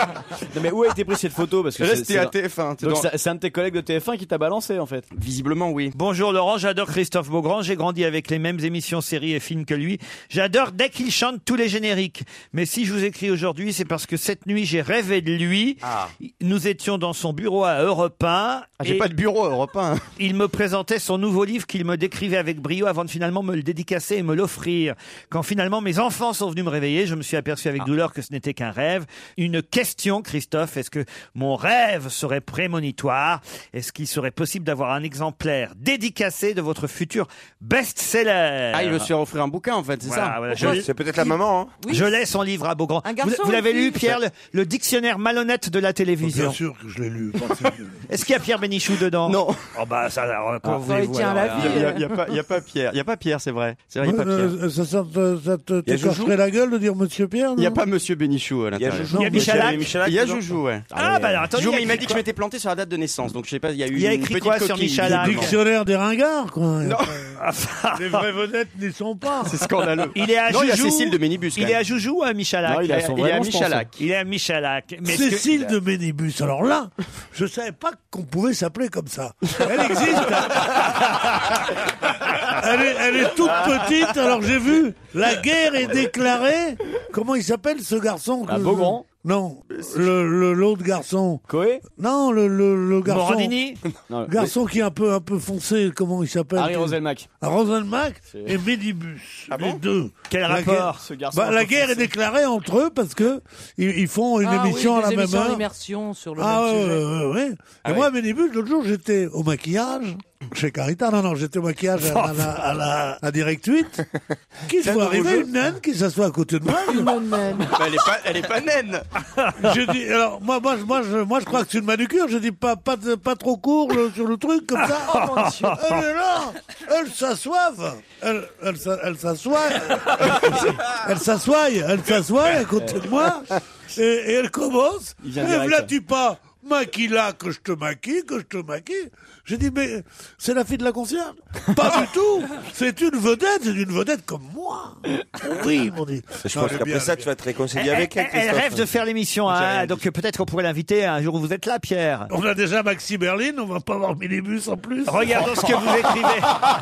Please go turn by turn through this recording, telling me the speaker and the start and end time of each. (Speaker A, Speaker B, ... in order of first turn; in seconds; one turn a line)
Speaker A: 0.5-5.1
Speaker B: 1.8-3.1
Speaker B: 5.1-5.9
Speaker C: 5.9-19.1
Speaker B: 15.8-16.1
Speaker B: 18.8-20.0
Speaker C: 20.2-39.1
Speaker B: 38.7-40.8
Speaker C: 40.0-40.9
Speaker D: 40.6-41.8
Speaker E: 41.2-42.1
Speaker C: 41.9-46.6
Speaker E: 43.0-44.1
Speaker F: 46.2-48.0
Speaker C: 48.1-51.9
Speaker B: 49.2-49.6
Speaker E: 50.8-52.1
Speaker B: 51.5-54.5
Speaker F: 54.0-57.8
Speaker D: 55.9-56.3
Speaker B: 57.5-60.9
Speaker D: 58.7-60.4
Speaker F: 59.1-59.7
Speaker C: 59.1-60.0
Speaker A: 60.9-61.5
Speaker C: 60.9-62.2
Speaker B: 61.5-65.5
Speaker C: 63.9-65.5
Speaker F: 65.0-67.3
Speaker B: 66.8-67.2
Speaker C: 67.4-68.2
Speaker F: 67.9-69.6
Speaker B: 69.4-71.8
Speaker C: 70.1-73.1
Speaker A: 72.6-73.9
Speaker B: 72.9-74.0
Speaker C: 74.0-75.7
Speaker F: 75.0-80.9
Speaker F: 82.5-91.4
Speaker A: 88.5-89.0
Speaker B: 89.7-90.0
Speaker A: 91.5-91.8
Speaker F: 92.0-93.5
Speaker C: 93.0-93.8
Speaker A: 94.1-94.5
Speaker F: 94.3-105.6
Speaker A: 96.6-97.3
Speaker A: 98.3-98.6
Speaker B: 99.5-99.8
Speaker C: 100.3-101.1
Speaker A: 100.9-102.1
Speaker E: 104.4-107.0
Speaker F: 106.4-114.0
Speaker C: 112.1-112.4
Speaker F: 114.7-117.1
Speaker D: 114.8-115.5
Speaker E: 116.8-117.8
Speaker B: 117.7-119.0
Speaker F: 119.6-147.3
Speaker E: 125.0-125.8
Speaker C: 125.0-126.0
Speaker A: 132.8-133.1
Speaker A: 135.2-135.9
Speaker D: 146.4-148.9
Speaker C: 147.7-152.3
Speaker B: 149.5-150.0
Speaker F: 152.3-155.5
Speaker C: 155.1-156.6